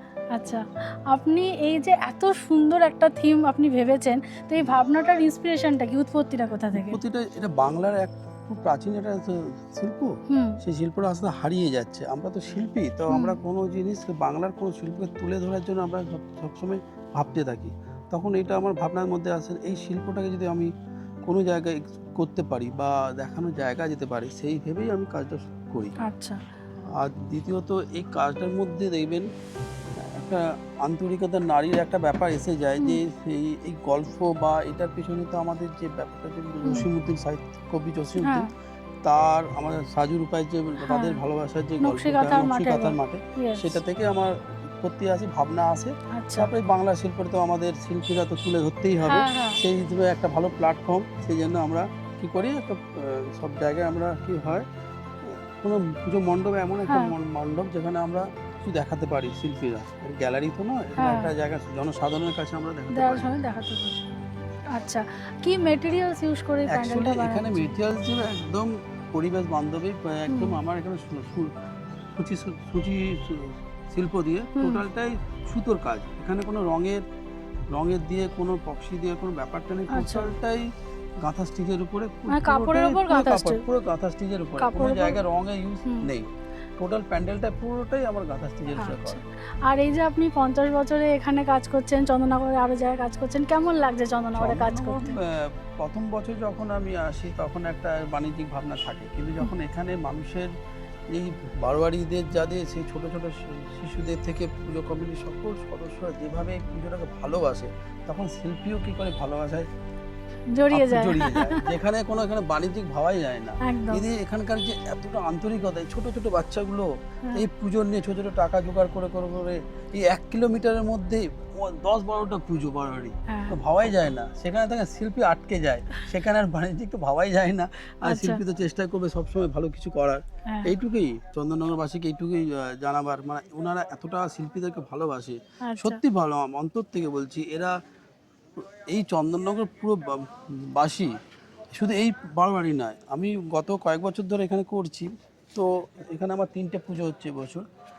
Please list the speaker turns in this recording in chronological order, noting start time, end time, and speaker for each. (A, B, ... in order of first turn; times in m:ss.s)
0:00.4-0:07.0 A
0:06.7-0:20.7 B
0:10.3-0:10.6 A
0:13.1-0:13.4 A
0:21.3-0:25.9 B
0:26.0-0:26.4 A
0:27.0-0:29.3 B
0:30.2-0:38.5 B
0:38.2-0:38.5 A
0:39.0-0:54.7 B
0:40.9-0:41.2 A
0:41.8-0:43.8 A
0:46.1-0:46.5 A
0:49.1-0:49.6 A
0:55.2-1:03.3 B
0:56.9-0:57.1 A
1:01.0-1:01.3 A
1:02.9-1:04.0 A
1:04.7-1:07.7 A
1:06.7-1:11.5 B
1:10.3-1:10.6 A
1:12.2-1:17.0 B
1:17.7-1:20.6 B
1:19.9-1:20.3 A
1:21.2-1:29.2 B
1:22.3-1:23.6 A
1:24.6-1:25.2 A
1:28.8-1:35.2 A
1:34.4-1:40.5 B
1:41.1-1:49.7 B
1:50.6-1:51.6 A
1:50.7-2:17.7 B
1:53.6-1:54.0 A
2:03.3-2:03.6 A
2:08.0-2:08.4 A
2:15.6-2:16.0 A
2:18.6-2:21.1 B
2:21.7-2:27.6 B